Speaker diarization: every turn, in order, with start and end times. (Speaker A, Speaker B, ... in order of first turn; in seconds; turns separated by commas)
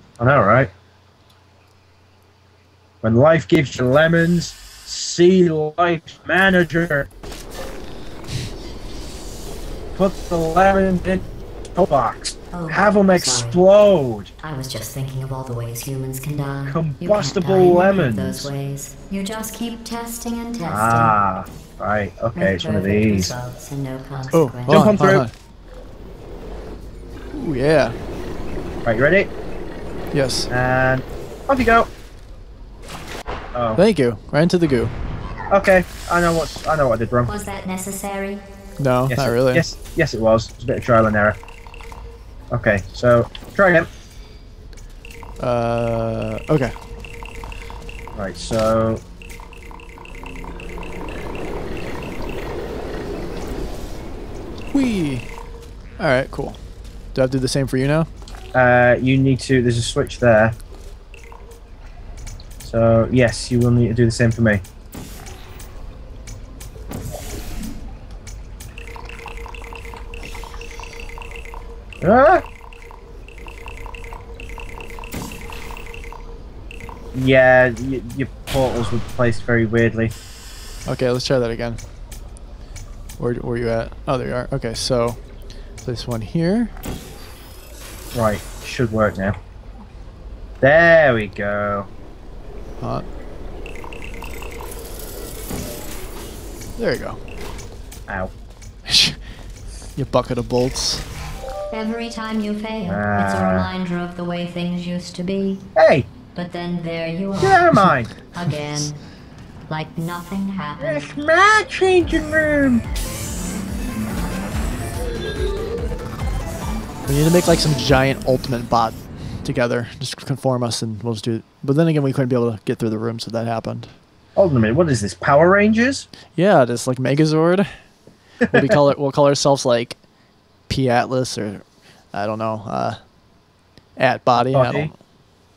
Speaker A: 0.2-0.7, Speaker A: 3.0-7.1, Speaker A: 9.9-11.2, Speaker A: 11.8-14.3, Speaker B: 12.5-13.6, Speaker B: 14.4-21.1, Speaker A: 16.7-18.5, Speaker A: 20.6-23.3, Speaker B: 22.3-24.9, Speaker C: 24.3-25.3, Speaker A: 24.7-25.3, Speaker C: 27.3-28.0, Speaker A: 28.9-29.3, Speaker C: 30.1-30.5, Speaker A: 30.5-31.9, Speaker A: 33.5-33.8, Speaker C: 33.8-34.9, Speaker A: 35.5-37.3, Speaker B: 37.3-38.4, Speaker C: 38.8-39.7, Speaker A: 39.1-41.4, Speaker A: 42.5-43.9, Speaker C: 45.4-46.7, Speaker A: 48.1-49.0, Speaker C: 54.7-55.3, Speaker C: 56.0-56.6, Speaker C: 57.1-58.1, Speaker A: 58.5-60.6, Speaker A: 62.6-64.6, Speaker A: 72.0-72.4, Speaker A: 77.1-80.1, Speaker C: 80.9-81.8, Speaker C: 83.2-85.2, Speaker C: 85.8-86.7, Speaker A: 88.1-89.4, Speaker A: 90.6-91.9, Speaker C: 92.8-93.1, Speaker C: 96.8-97.2, Speaker C: 98.9-99.2, Speaker C: 100.0-101.0, Speaker B: 101.7-105.7, Speaker A: 102.9-103.7, Speaker A: 105.8-106.1, Speaker B: 106.3-109.0, Speaker A: 107.4-108.2, Speaker B: 109.7-111.1, Speaker A: 110.8-112.8, Speaker C: 117.1-123.9, Speaker A: 124.3-126.1, Speaker C: 126.4-127.7, Speaker C: 128.4-130.0, Speaker C: 130.7-133.1, Speaker C: 134.0-135.0, Speaker A: 134.4-134.9